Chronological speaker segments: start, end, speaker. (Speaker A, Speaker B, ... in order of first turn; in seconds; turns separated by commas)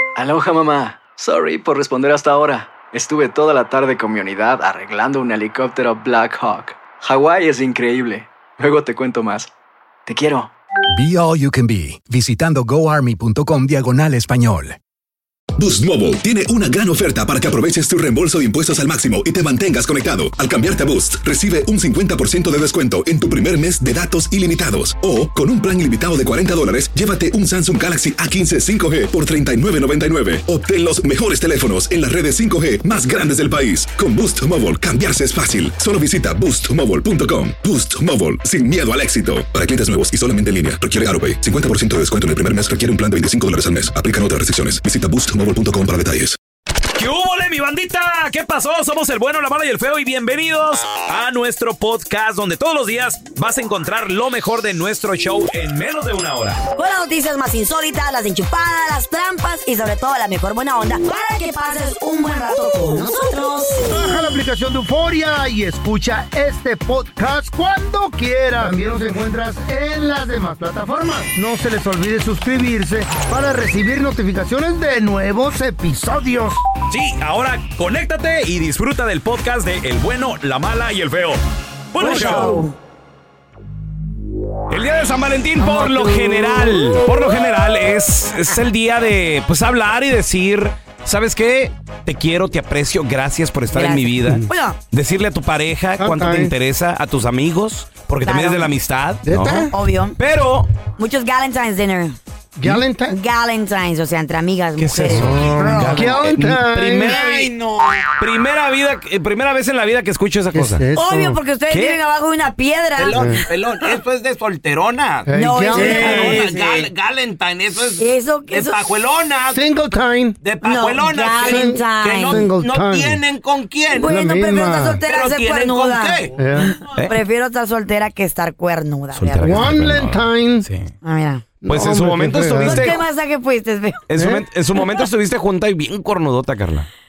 Speaker A: 0.1-9.5, Speaker A: 10.1-10.5, Speaker B: 10.9-14.8, Speaker C: 15.6-46.4, Speaker D: 46.9-56.6, Speaker E: 56.7-63.8, Speaker F: 63.8-76.6, Speaker D: 76.9-81.4, Speaker D: 81.9-82.6, Speaker E: 82.0-82.7, Speaker D: 84.7-99.7, Speaker E: 85.6-87.0, Speaker E: 93.7-94.8, Speaker F: 96.0-96.5, Speaker E: 98.2-98.7, Speaker F: 99.2-99.7, Speaker E: 99.4-100.2, Speaker D: 100.2-100.7, Speaker E: 101.0-102.2, Speaker F: 102.6-103.2, Speaker E: 103.1-106.1, Speaker D: 104.8-107.4, Speaker F: 105.1-107.2, Speaker G: 107.2-108.0, Speaker D: 108.2-110.8, Speaker F: 110.5-111.4, Speaker E: 110.9-113.6, Speaker D: 111.7-112.0, Speaker G: 113.0-115.3, Speaker F: 113.1-113.4, Speaker F: 115.3-116.4, Speaker E: 115.3-116.8, Speaker G: 115.8-119.6, Speaker E: 117.8-119.0, Speaker F: 119.5-120.4, Speaker G: 120.4-124.1, Speaker E: 120.6-122.5, Speaker F: 121.4-123.2, Speaker E: 123.9-129.8, Speaker F: 124.0-125.0, Speaker G: 125.0-126.3, Speaker F: 126.3-126.8, Speaker D: 129.1-130.9, Speaker F: 129.4-130.7, Speaker E: 131.0-131.4, Speaker F: 131.6-132.9, Speaker D: 131.7-133.0, Speaker E: 132.6-134.0, Speaker D: 134.1-136.9, Speaker F: 134.2-134.4